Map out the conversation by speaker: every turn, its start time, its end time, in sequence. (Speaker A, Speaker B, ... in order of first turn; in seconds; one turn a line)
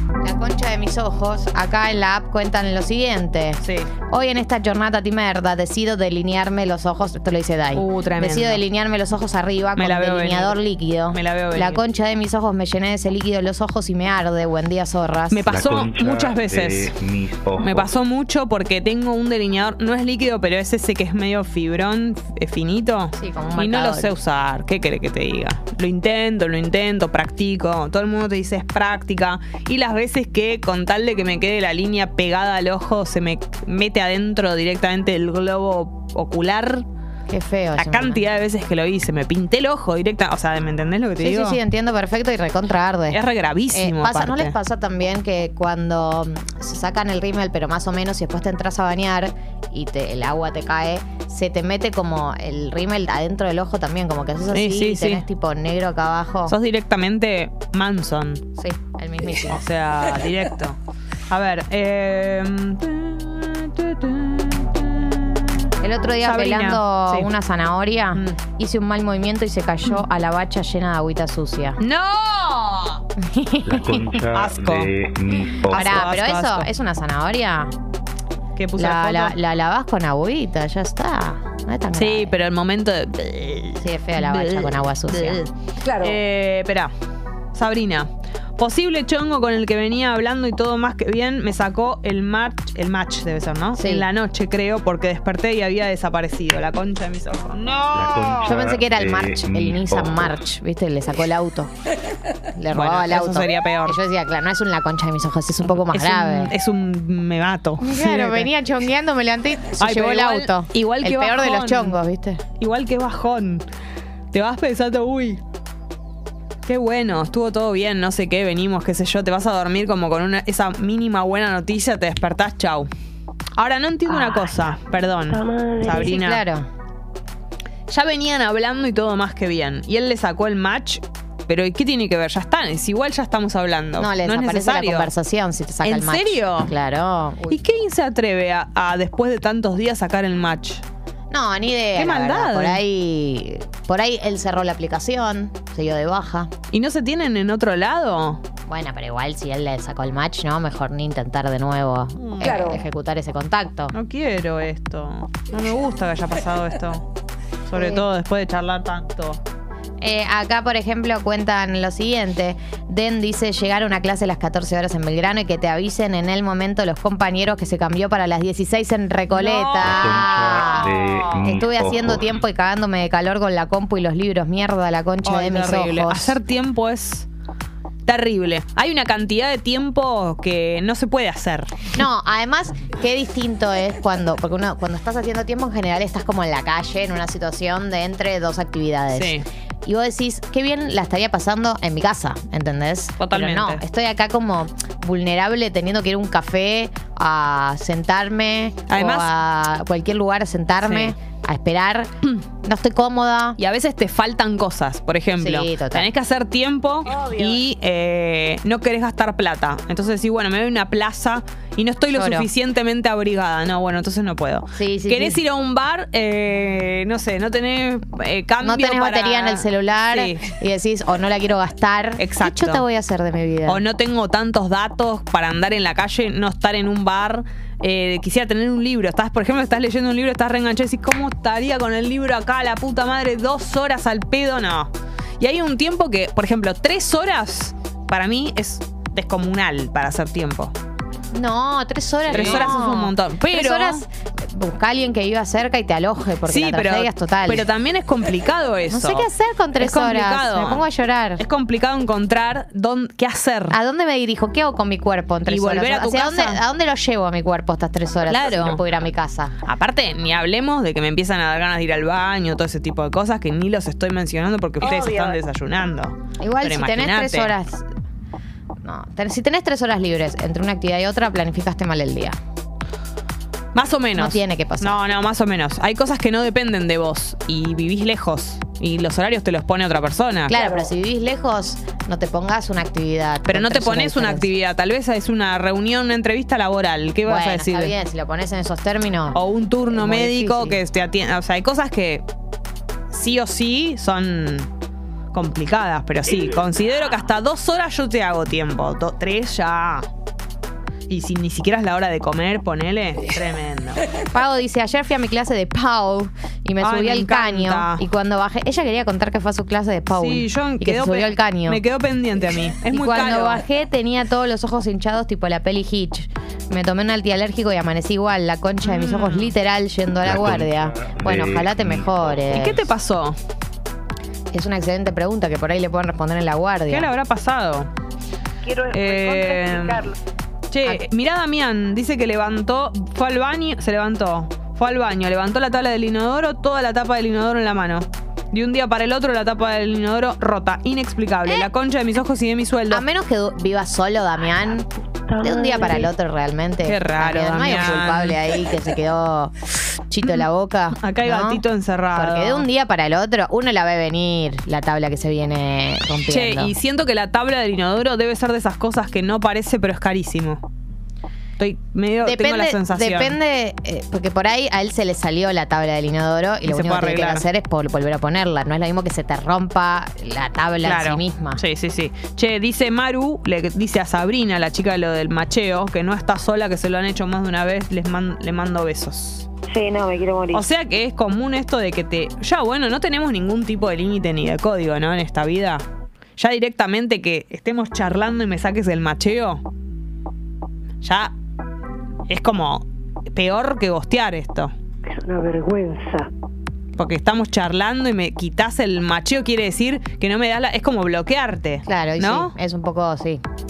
Speaker A: 0.2-15.4
Speaker B: 3.6-3.9
Speaker B: 7.7-8.6
Speaker B: 9.8-10.6
Speaker B: 11.1-11.8
Speaker B: 15.3-16.9
Speaker C: 15.5-17.9
Speaker B: 17.6-36.8
Speaker A: 23.1-24.1
Speaker A: 37.3-38.2
Speaker B: 37.8-41.6
Speaker A: 41.2-43.2
Speaker B: 43.1-44.5
Speaker A: 43.7-56.5
Speaker B: 54.5-55.2
Speaker B: 56.5-58.4
Speaker A: 58.6-59.6
Speaker B: 59.4-60.8
Speaker B: 61.3-65.7
Speaker A: 65.8-71.8
Speaker B: 66.2-67.3
Speaker B: 71.8-73.0
Speaker A: 73.2-74.2
Speaker C: 73.6-76.1
Speaker B: 74.3-74.9
Speaker B: 75.7-76.7
Speaker A: 75.7-77.7
Speaker B: 78.5-79.4
Speaker A: 78.8-82.3
Speaker B: 81.9-86.9
Speaker A: 83.8-85.4
Speaker D: 85.9-86.1
Speaker B: 87.5-98.5
Speaker A: 93.8-94.0
Speaker C: 97.9-100.4
Speaker A: 98.4-101.7
Speaker A: 102.6-106.5
Speaker B: 102.7-104.0
Speaker B: 105.8-108.5
Speaker A: 107.8-112.4
Speaker B: 109.8-112.0
Speaker B: 112.6-113.6
Speaker B: 114.3-115.4
Speaker B: 116.7-122.9
Speaker B: 123.6-126.4
Speaker D: 125.3-126.1
Speaker A: 125.9-126.7
Speaker B: 127.9-135.1
Speaker A: 134.0-137.6
Speaker B: 135.8-136.7
Speaker B: 137.5-140.8
Speaker A: 141.3-146.5
Speaker B: 141.9-142.8
Speaker B: 146.7-148.4
Speaker A: 148.7-153.9
Speaker B: 152.2-152.7
Speaker D: 152.4-152.8
Speaker B: 153.9-157.1
Speaker B: 157.7-159.4
Speaker A: 160.0-176.4
Speaker B: 169.3-171.2
Speaker C: 169.8-172.4
Speaker B: 175.2-177.3
Speaker B: 178.0-181.9
Speaker A: 181.9-202.1
Speaker B: 189.1-189.4
Speaker B: 193.2-193.8
Speaker B: 198.9-199.3
Speaker B: 200.8-201.1
Speaker A: 202.6-203.6
Speaker B: 203.6-220.5
Speaker A: 205.4-206.1
Speaker A: 212.1-212.5
Speaker A: 214.8-215.4
Speaker A: 218.6-223.8
Speaker B: 222.2-222.8
Speaker B: 223.7-240.7
Speaker A: 241.3-247.7
Speaker B: 242.3-244.0
Speaker B: 246.4-249.3
Speaker A: 248.9-251.4
Speaker B: 249.8-250.8
Speaker B: 251.4-253.8
Speaker A: 253.7-259.5
Speaker B: 255.4-256.6
Speaker B: 258.2-258.8
Speaker B: 259.6-267.5
Speaker D: 264.9-265.3
Speaker A: 266.4-267.9
Speaker A: 268.8-272.4
Speaker B: 273.7-280.5
Speaker A: 274.2-275.0
Speaker A: 280.5-284.5
Speaker D: 280.5-280.8
Speaker B: 283.5-287.9
Speaker A: 287.2-290.8
Speaker B: 289.3-292.2
Speaker B: 293.1-294.7
Speaker B: 295.3-300.1
Speaker B: 301.1-304.0
Speaker A: 304.3-311.8
Speaker B: 306.8-308.0
Speaker B: 310.1-313.6
Speaker A: 312.9-322.8
Speaker B: 318.8-319.5
Speaker C: 320.2-322.9
Speaker B: 322.5-323.4
Speaker A: 324.5-327.1
Speaker B: 326.9-327.9
Speaker D: 328.6-330.2
Speaker B: 328.9-330.1
Speaker B: 330.7-343.0
Speaker A: 342.9-344.9
Speaker D: 345.3-346.1
Speaker A: 345.4-349.5
Speaker B: 346.8-348.4
Speaker A: 350.1-351.6
Speaker B: 351.0-352.7
Speaker A: 352.1-356.7
Speaker B: 356.3-360.6
Speaker B: 361.6-363.4
Speaker A: 362.2-371.6
Speaker B: 366.6-367.4
Speaker B: 370.8-379.5
Speaker D: 379.7-380.6
Speaker B: 380.5-385.8
Speaker B: 386.4-389.6
Speaker B: 391.0-391.3
Speaker B: 392.3-394.7
Speaker D: 395.1-396.3
Speaker B: 396.9-402.5
Speaker A: 401.9-403.4